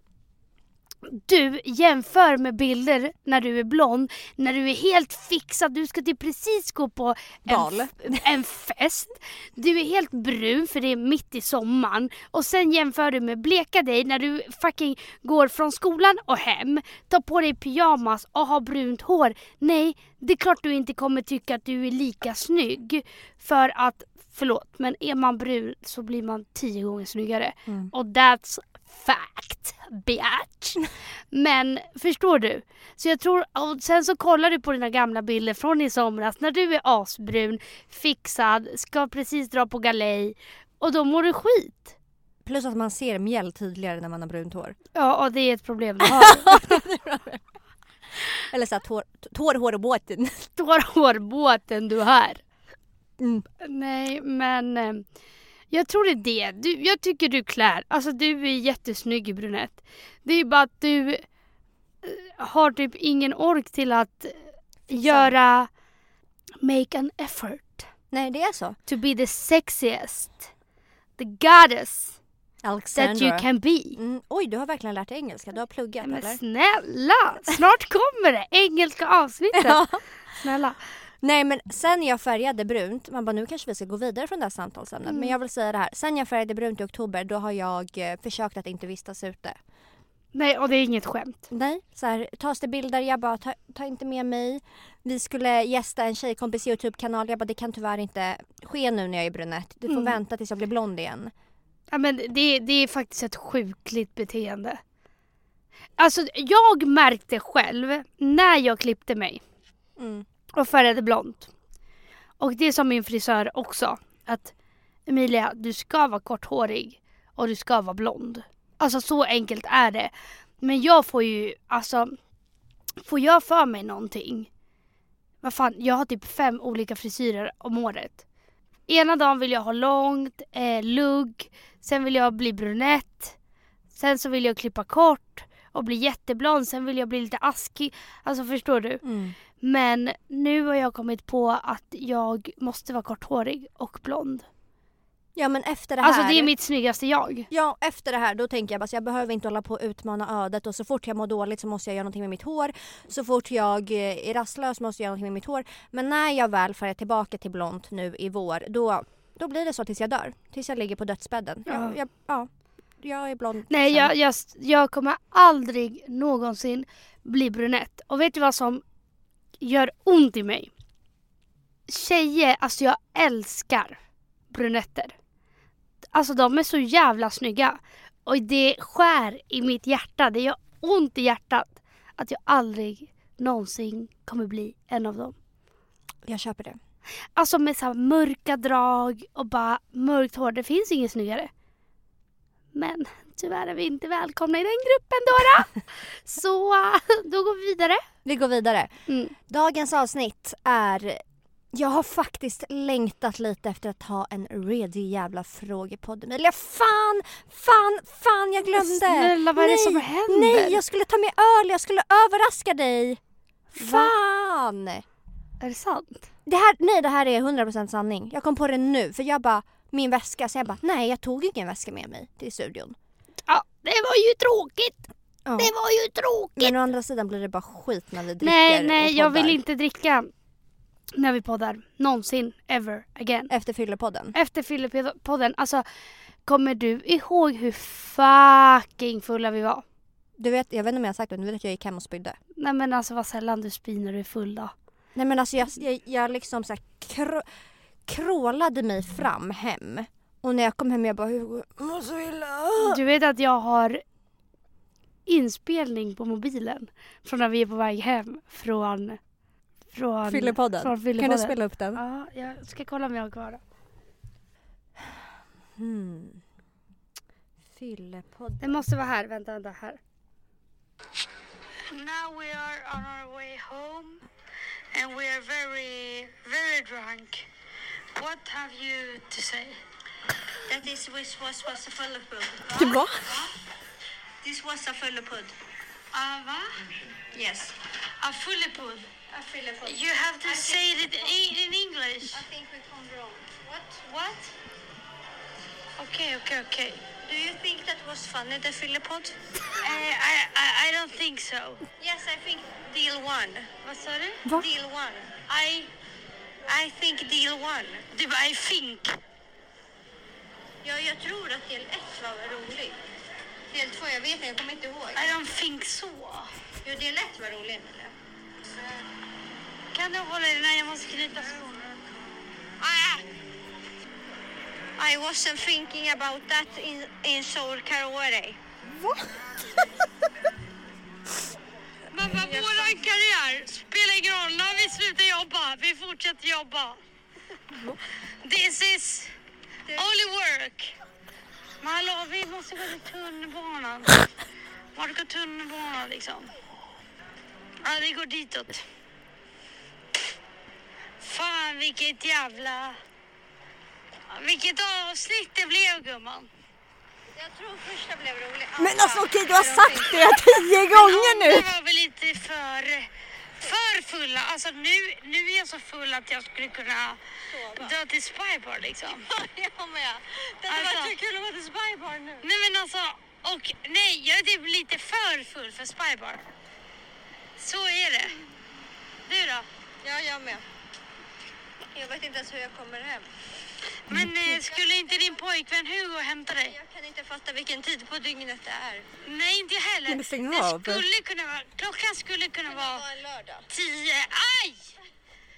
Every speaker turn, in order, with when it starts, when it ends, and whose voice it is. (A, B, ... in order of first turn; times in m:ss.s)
0:01.0-0:41.9 A
0:07.5-0:08.3 B
0:27.7-0:27.9 B
0:42.4-0:44.8 B
0:44.9-0:46.8 A
0:46.0-0:47.4 B
0:48.4-0:50.5 B
0:50.6-0:52.4 A
0:53.2-0:53.4 B
0:53.6-0:55.0 A
0:55.7-1:01.2 A
1:02.0-1:05.7 A
1:04.9-1:05.3 B
1:06.6-1:07.9 A
1:08.1-1:08.8 B
1:08.9-1:10.5 A
1:11.2-1:12.2 A
1:12.6-1:16.4 B
1:13.0-1:14.0 A
1:16.0-1:20.8 A
1:19.5-1:20.0 B
1:21.2-1:29.6 B
1:25.1-1:25.3 A
1:30.3-1:31.4 A
1:31.5-1:41.3 B
1:39.9-1:40.2 A
1:41.9-1:44.8 A
1:46.0-1:49.4 A
1:50.0-1:50.2 B
1:50.5-1:51.5 A
1:52.4-1:54.5 A
1:55.1-2:02.2 A
2:03.0-2:04.5 A
2:05.4-2:08.2 A
2:08.9-2:13.4 A
2:13.9-2:24.4 A
2:19.0-2:19.4 B
2:25.4-2:26.5 B
2:26.0-2:27.5 A
2:27.5-2:42.5 B
2:41.6-2:42.0 A
2:43.0-2:44.1 B
2:43.7-2:48.8 A
2:49.6-2:50.7 A
2:51.9-2:55.1 A
2:56.0-3:05.3 A
3:06.2-3:06.8 B
3:07.4-3:11.5 A
3:12.7-3:18.0 A
3:18.2-3:33.2 B
3:19.1-3:19.3 A
3:28.7-3:30.8 A
3:33.7-3:34.1 A
3:33.8-3:35.0 B
3:35.6-3:36.2 A
3:36.4-3:43.0 B
3:43.5-3:46.7 A
3:45.4-3:45.7 B
3:46.6-3:49.6 B
3:48.4-3:50.3 A
3:51.1-3:53.5 A
3:53.5-3:54.3 B
3:54.3-3:55.8 A
3:56.4-3:59.8 A
4:00.4-4:02.4 B
4:02.6-4:04.7 A
4:05.1-4:07.4 B
4:08.1-4:13.0 B
4:12.8-4:14.0 A
4:15.2-4:19.2 A
4:19.9-4:23.6 A
4:20.2-4:22.0 B
4:25.8-4:26.4 B
4:27.7-4:28.8 B
4:28.6-4:30.0 A
4:31.9-4:34.2 C
4:34.9-4:37.5 C
4:38.2-4:39.8 C
4:40.6-4:43.4 D
4:42.7-4:43.5 B
4:44.4-4:45.5 D
4:46.1-4:46.8 C
4:47.3-4:47.7 D
4:48.2-4:49.1 C
4:49.3-4:51.3 D
4:49.8-4:52.4 C
4:52.3-4:54.5 D
4:56.0-4:57.0 C
4:57.1-4:59.4 D
4:59.8-5:01.8 C
5:02.0-5:03.7 D
5:03.8-5:04.4 C
5:04.5-5:05.8 D
5:06.6-5:08.1 D
5:08.1-5:09.2 C
5:10.8-5:13.0 D
5:13.7-5:15.3 D
5:15.1-5:16.6 C
5:16.8-5:18.1 D
5:19.9-5:21.9 C
5:22.8-5:23.2 D
5:25.0-5:28.6 D
5:32.1-5:37.0 C
5:32.5-5:32.9 D
5:38.4-5:39.3 C
5:39.9-5:40.9 C
5:41.8-5:44.3 C
5:45.0-5:46.5 C
5:47.8-5:48.8 C
5:51.2-5:53.0 C
5:54.3-5:56.5 C
5:57.3-6:00.4 D
5:58.8-6:01.7 B
6:00.9-6:09.3 C
6:07.5-6:07.9 D
6:09.1-6:12.5 D
6:10.6-6:11.2 C
6:12.4-6:16.4 C
6:17.6-6:18.4 C
6:19.3-6:19.6 C
6:20.0-6:20.6 D
6:21.9-6:23.4 D
6:24.1-6:26.8 C
6:24.1-6:24.5 B
6:24.5-6:25.1 D
6:26.6-6:29.1 D
6:29.2-6:35.0 C
6:30.1-6:31.0 B
6:32.7-6:33.6 D